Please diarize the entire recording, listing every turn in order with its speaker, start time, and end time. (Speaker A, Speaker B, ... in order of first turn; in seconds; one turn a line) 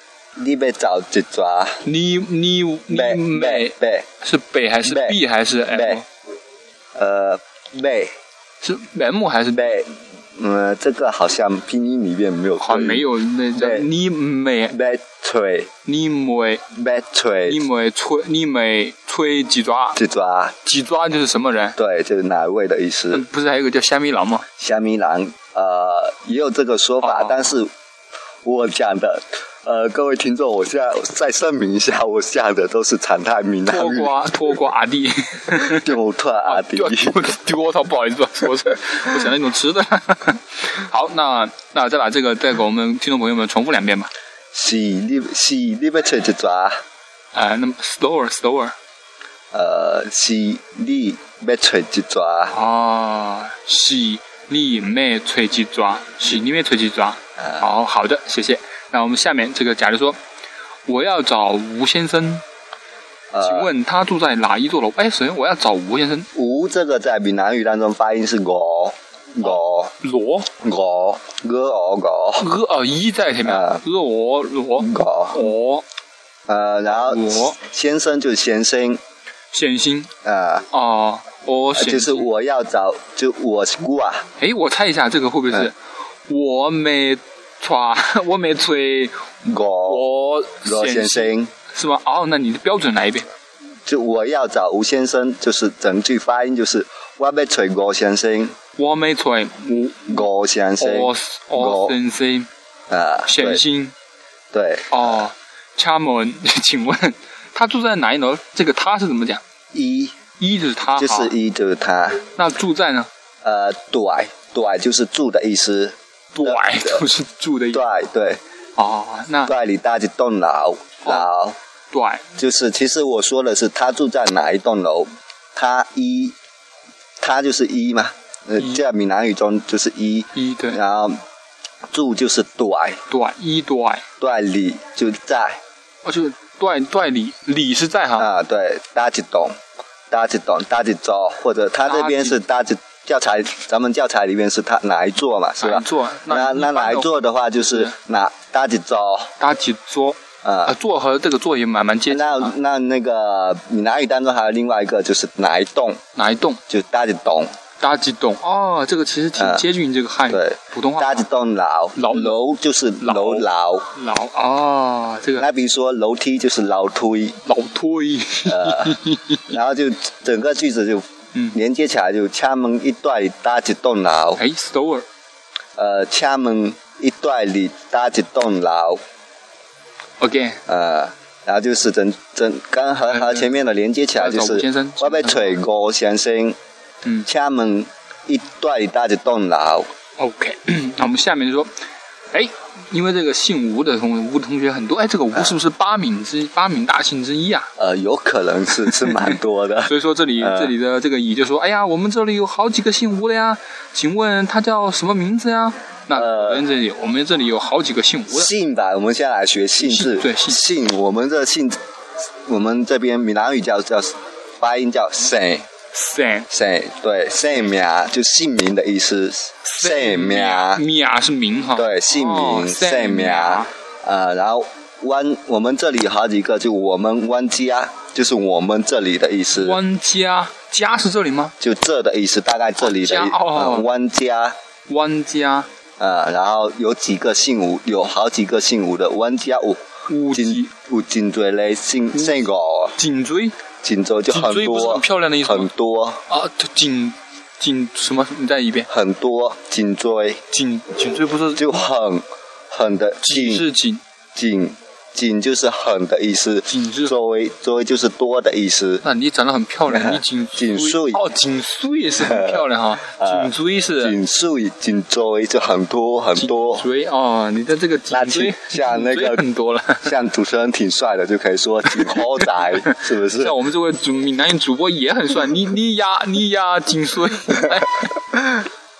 Speaker A: 0.4-1.8
Speaker B: 1.8-6.0
Speaker A: 2.9-4.1
Speaker A: 4.8-6.0
Speaker A: 7.0-8.1
Speaker B: 8.6-9.8
Speaker A: 9.6-13.9
Speaker B: 12.6-14.8
Speaker A: 14.7-15.7
Speaker B: 15.8-16.6
Speaker A: 16.7-17.6
Speaker B: 17.5-20.0
Speaker A: 19.9-20.6
Speaker B: 20.6-21.8
Speaker A: 21.8-23.2
Speaker B: 23.1-24.5
Speaker A: 24.6-27.7
Speaker B: 27.0-27.4
Speaker A: 28.4-34.1
Speaker B: 33.7-35.9
Speaker A: 35.5-37.2
Speaker B: 36.5-44.1
Speaker A: 44.5-46.8
Speaker B: 47.3-48.8
Speaker A: 49.5-52.5
Speaker B: 52.5-60.2
Speaker A: 57.4-57.7
Speaker B: 60.9-62.4
Speaker A: 63.3-63.7
Speaker B: 63.4-66.3
Speaker A: 66.3-69.9
Speaker B: 70.0-70.5
Speaker A: 70.6-72.5
Speaker B: 72.4-75.8
Speaker A: 73.4-73.8
Speaker A: 74.8-75.5
Speaker A: 76.5-79.0
Speaker B: 76.9-77.6
Speaker B: 79.5-80.1
Speaker A: 80.2-80.7
Speaker B: 80.7-82.3
Speaker A: 81.8-84.3
Speaker B: 84.4-85.8
Speaker B: 86.3-89.3
Speaker A: 89.5-90.0
Speaker B: 89.8-93.3
Speaker A: 90.7-91.5
Speaker A: 93.9-98.6
Speaker B: 98.8-100.2
Speaker A: 100.1-102.0
Speaker B: 100.8-102.5
Speaker A: 102.9-103.6
Speaker B: 103.3-103.9
Speaker A: 104.5-105.0
Speaker B: 104.9-109.4
Speaker A: 109.7-110.2
Speaker B: 110.4-111.4
Speaker A: 111.0-112.2
Speaker B: 112.4-113.1
Speaker A: 113.4-117.0
Speaker B: 116.3-117.9
Speaker A: 117.7-118.4
Speaker B: 118.8-119.5
Speaker A: 119.5-121.6
Speaker B: 121.9-122.2
Speaker A: 122.4-126.4
Speaker A: 127.2-131.2
Speaker B: 130.3-130.8
Speaker A: 131.9-133.0
Speaker B: 133.1-134.1
Speaker A: 134.2-135.6
Speaker B: 136.0-138.3
Speaker A: 138.2-139.6
Speaker A: 140.1-149.3
Speaker B: 141.9-142.4
Speaker B: 145.6-147.2
Speaker B: 149.4-152.6
Speaker A: 150.4-150.8
Speaker A: 152.1-156.0
Speaker B: 156.2-156.6
Speaker A: 156.7-157.5
Speaker B: 157.8-161.3
Speaker A: 159.4-159.7
Speaker A: 160.3-163.9
Speaker B: 162.0-162.4
Speaker B: 163.0-165.5
Speaker A: 165.4-167.4
Speaker B: 167.5-169.5
Speaker A: 168.4-174.4
Speaker B: 174.4-175.1
Speaker A: 175.8-179.0
Speaker B: 180.2-180.6
Speaker A: 180.7-186.6
Speaker B: 183.1-183.5
Speaker B: 184.2-185.6
Speaker A: 187.3-189.9
Speaker B: 190.2-191.7
Speaker B: 192.3-197.7
Speaker A: 197.8-200.7
Speaker B: 198.9-199.3
Speaker B: 199.9-208.5
Speaker A: 206.1-206.7
Speaker A: 208.3-211.8
Speaker B: 209.8-210.6
Speaker A: 212.5-215.7
Speaker B: 215.9-216.5
Speaker A: 216.5-220.8
Speaker B: 219.6-223.7
Speaker A: 221.8-229.8
Speaker B: 229.5-231.6
Speaker A: 231.6-234.6
Speaker B: 232.8-233.9
Speaker B: 234.9-235.7
Speaker A: 236.0-242.9
Speaker B: 240.1-240.7
Speaker B: 243.0-243.6
Speaker A: 243.8-246.2
Speaker B: 244.3-245.7
Speaker B: 246.3-248.9
Speaker A: 248.9-250.4
Speaker B: 250.5-251.9
Speaker A: 251.6-253.7
Speaker B: 253.2-254.0
Speaker A: 254.3-259.0
Speaker B: 256.7-257.1
Speaker B: 259.0-264.2
Speaker A: 259.9-261.2
Speaker A: 262.2-266.9
Speaker B: 266.4-270.1
Speaker A: 268.1-269.4
Speaker A: 270.0-273.6
Speaker B: 272.0-278.1